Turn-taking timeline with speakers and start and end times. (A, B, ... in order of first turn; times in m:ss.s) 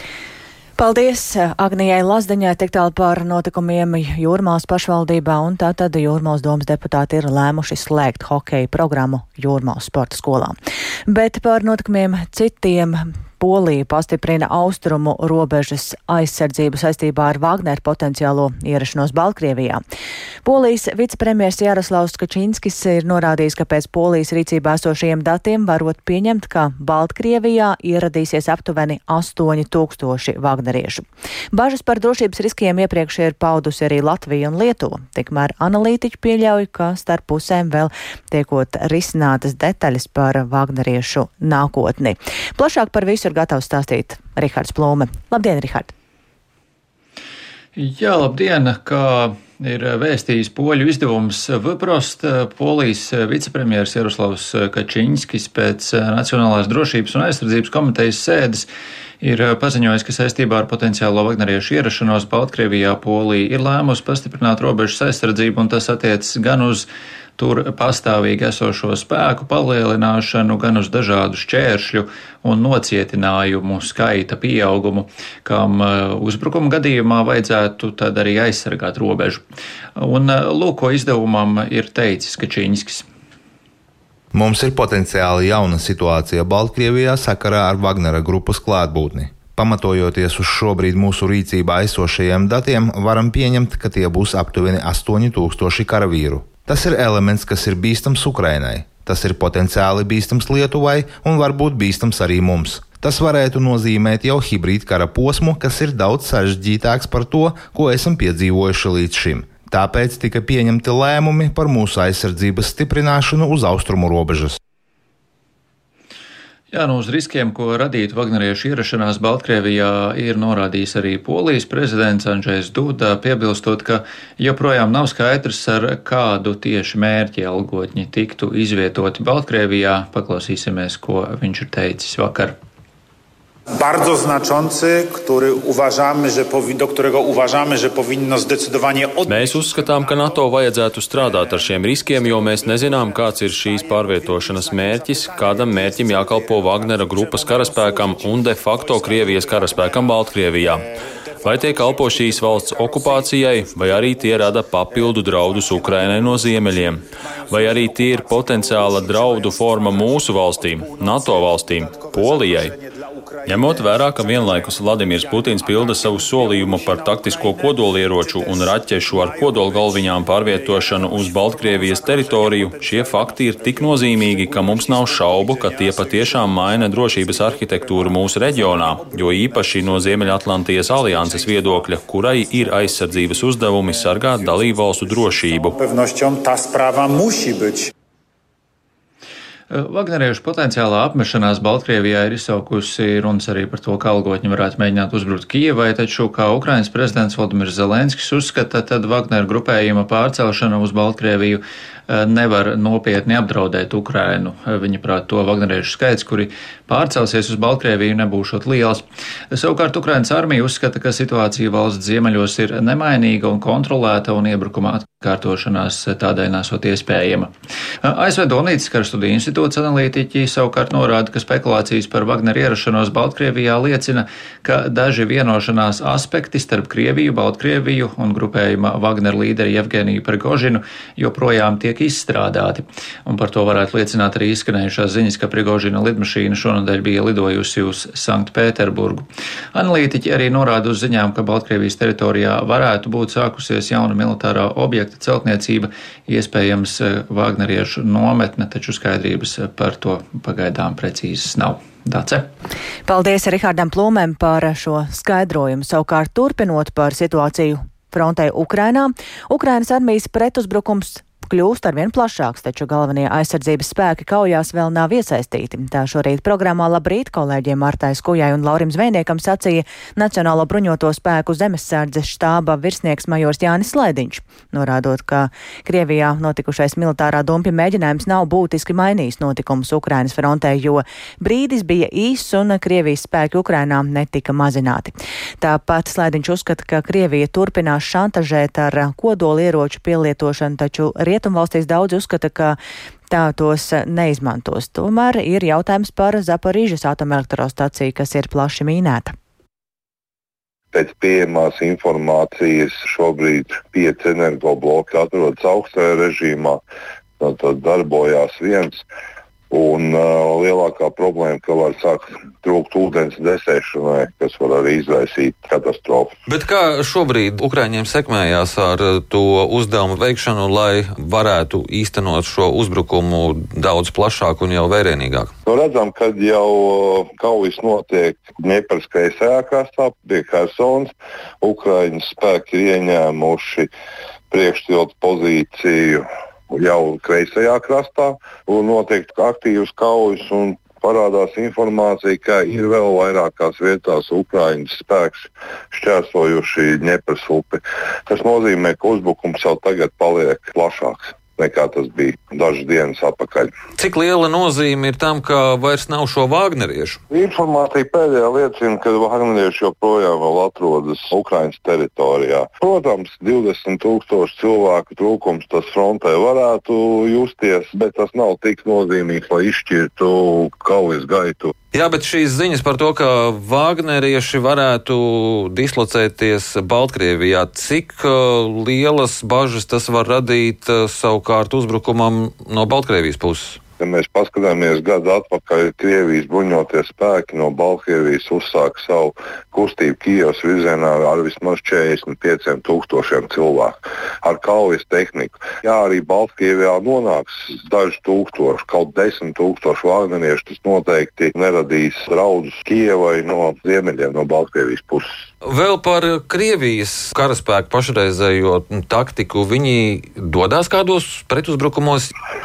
0:00.8-0:10.5 A
0:11.1-0:19.8 A
0:20.4-0:45.9 A
0:47.8-0:58.7 B
0:59.2-1:19.4 B
1:20.0-1:23.0 B
1:24.3-1:54.6 C
1:56.7-2:12.6 B
2:13.7-2:20.1 D
2:19.2-2:30.8 E
2:31.4-2:42.8 E
2:31.8-2:33.2 D
2:34.0-2:34.5 D
2:35.5-2:36.3 D
2:37.5-2:58.6 D
2:43.4-3:05.8 E
2:59.4-3:00.0 D
3:01.1-3:01.8 D
3:04.0-3:04.5 D
3:05.1-3:07.9 D
3:09.7-3:37.5 B
3:38.0-4:12.5 B
4:13.1-4:52.8 A
4:53.3-4:59.3 A
5:00.9-5:06.8 F
5:07.4-5:09.0 F
5:09.7-5:16.3 F
5:16.5-5:25.5 G
5:25.6-5:33.9 F
5:34.5-5:53.7 F
5:54.0-5:57.2 G
5:57.3-6:11.7 F
6:11.9-6:23.8 G
6:24.0-6:45.3 F
6:45.7-6:52.3 G